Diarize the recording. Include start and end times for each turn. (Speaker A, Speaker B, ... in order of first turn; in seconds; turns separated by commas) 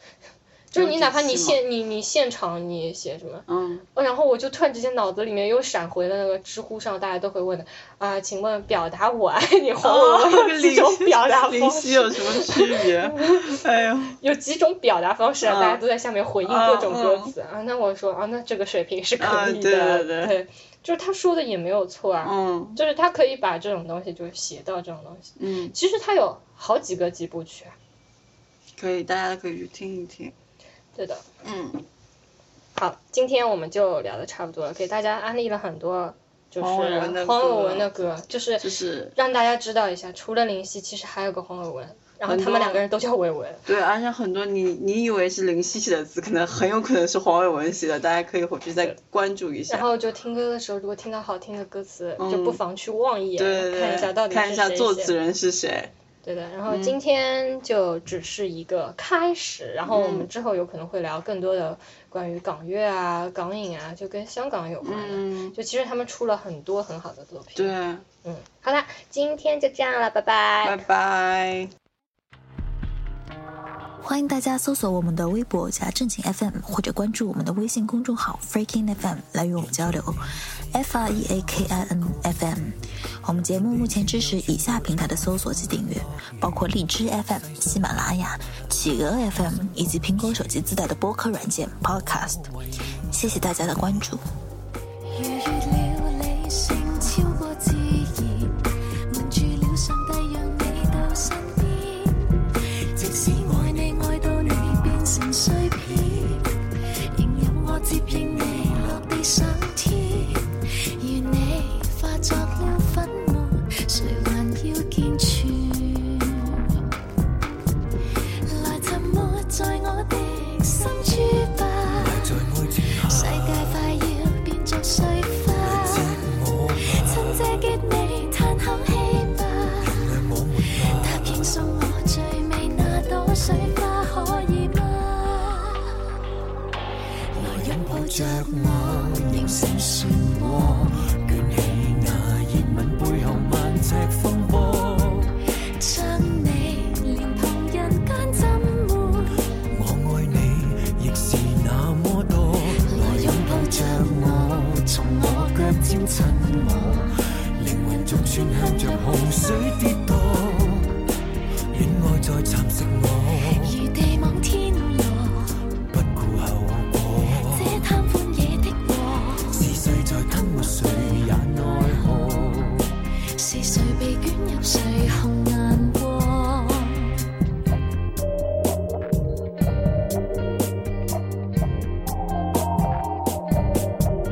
Speaker A: 0.7-13.6, Speaker B: 0.8-1.6, Speaker B: 3.5-3.9, Speaker B: 9.8-14.2, Speaker A: 14.2-27.8, Speaker B: 15.4-15.8, Speaker B: 16.4-17.3, Speaker B: 19.2-20.3, Speaker B: 22.2-22.8, Speaker B: 25.4-25.8, Speaker B: 28.8-30.3, Speaker A: 31.0-31.2, Speaker B: 31.4-31.9, Speaker A: 32.8-43.6, Speaker B: 36.6-37.9, Speaker B: 38.6-39.1, Speaker B: 42.3-42.8, Speaker B: 43.7-49.9, Speaker A: 49.7-55.1, Speaker B: 52.2-52.6, Speaker B: 53.4-55.9, Speaker A: 56.2-70.8, Speaker B: 56.7-57.0, Speaker B: 59.9-60.3, Speaker B: 64.8-65.6, Speaker B: 67.5-68.1, Speaker B: 70.6-71.7, Speaker C: 74.0-80.2, Speaker C: 80.7-82.7, Speaker D: 81.1-82.5, Speaker C: 83.2-92.5, Speaker D: 83.5-88.6, Speaker D: 89.4-90.4, Speaker D: 92.1-93.0, Speaker C: 93.1-94.2, Speaker E: 95.1-106.6, Speaker D: 103.0-104.9, Speaker D: 106.0-106.4, Speaker E: 107.1-116.8, Speaker D: 108.1-109.1, Speaker E: 118.4-122.3, Speaker D: 122.0-123.8, Speaker E: 122.9-126.2, Speaker D: 125.6-127.6, Speaker E: 126.8-130.1, Speaker D: 129.8-131.6, Speaker E: 130.7-136.0, Speaker E: 137.3-141.4, Speaker D: 137.3-145.3, Speaker E: 145.8-149.4, Speaker D: 149.7-161.0, Speaker E: 152.6-157.1, Speaker E: 157.7-159.8, Speaker D: 161.7-163.8, Speaker E: 163.4-165.6, Speaker D: 165.9-167.8, Speaker E: 167.3-172.0, Speaker D: 169.5-172.9, Speaker E: 173.3-177.3